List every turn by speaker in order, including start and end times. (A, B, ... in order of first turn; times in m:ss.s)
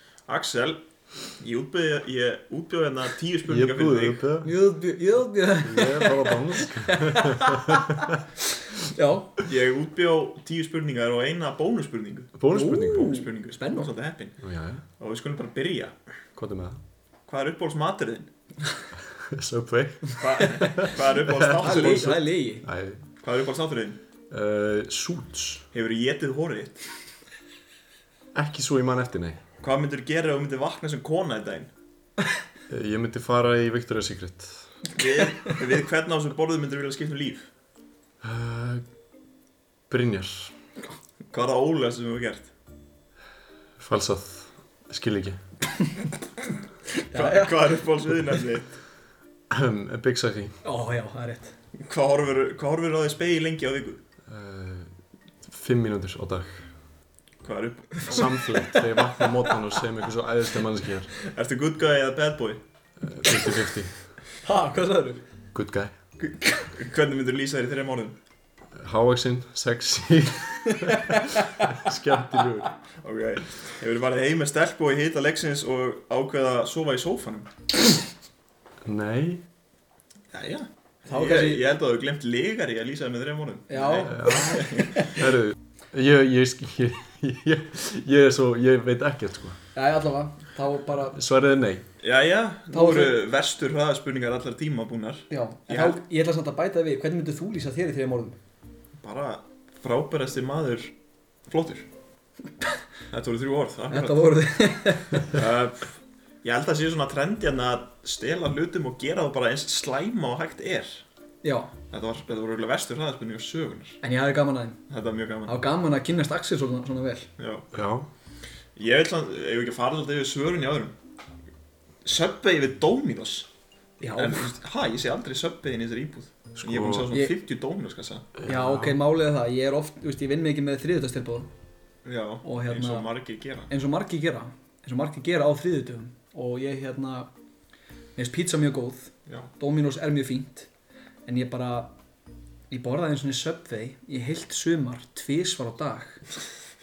0:00.3-0:04.2 A
0:03.5-0:04.5 B
0:04.4-0:09.4 C
0:05.6-0:08.2 B
0:09.4-0:14.4 A
0:12.4-0:13.1 B
0:12.5-0:13.9 C
0:14.4-0:14.8 B
0:15.0-0:15.9 A
0:16.4-0:16.8 B
0:17.3-0:18.3 A
0:19.0-0:23.0 B
0:20.2-0:22.2 A
0:20.6-0:20.9 C
0:21.6-0:22.6 C
0:23.2-0:24.0 A
0:24.3-0:25.6 B
0:25.7-0:26.9 A
0:28.3-0:29.4 B
0:29.6-0:31.7 A
0:32.7-0:34.7 B
0:34.9-0:37.5 A
0:38.2-0:38.8 B
0:39.9-0:40.5 B
0:41.3-0:42.5 A
0:43.8-0:45.4 B
0:46.9-0:47.8 C
0:47.1-0:48.8 A
0:49.5-0:50.6 B
0:50.6-0:51.5 C
0:51.8-0:54.0 A
0:54.2-0:56.7 B
0:57.4-0:58.3 A
0:58.1-1:01.1 B
0:58.1-0:59.6 C
1:01.2-1:02.6 A
1:03.0-1:04.0 B
1:04.4-1:05.2 C
1:05.5-1:05.9 B
1:06.2-1:08.2 A
1:08.7-1:12.7 B
1:10.8-1:11.7 C
1:13.0-1:17.5 A
1:18.8-1:19.4 B
1:20.3-1:25.1 A
1:21.1-1:21.6 C
1:23.7-1:25.2 C
1:24.0-1:29.6 B
1:29.7-1:31.2 C
1:31.1-1:31.8 B
1:32.0-1:36.0 A
1:32.7-1:33.1 C
1:35.3-1:38.4 C
1:39.0-1:40.9 A
1:41.4-1:41.9 A
1:43.1-1:44.3 A
1:43.9-1:45.4 C
1:45.3-1:51.0 A
1:51.4-1:51.7 C
1:51.9-1:54.0 A
1:54.0-1:54.8 C
1:54.9-1:55.6 A
1:55.4-1:57.3 C
1:57.4-1:57.7 A
1:57.7-1:58.1 B
1:58.8-2:00.9 A
2:02.0-2:03.5 A
2:04.0-2:04.5 C
2:04.1-2:08.3 A
2:06.6-2:07.1 B
2:08.4-2:09.0 B
2:08.4-2:11.5 C
2:12.0-2:13.7 A
2:12.4-2:13.1 C
2:13.7-2:17.3 C
2:18.2-2:20.7 C
2:21.2-2:21.9 C
2:22.7-2:26.2 C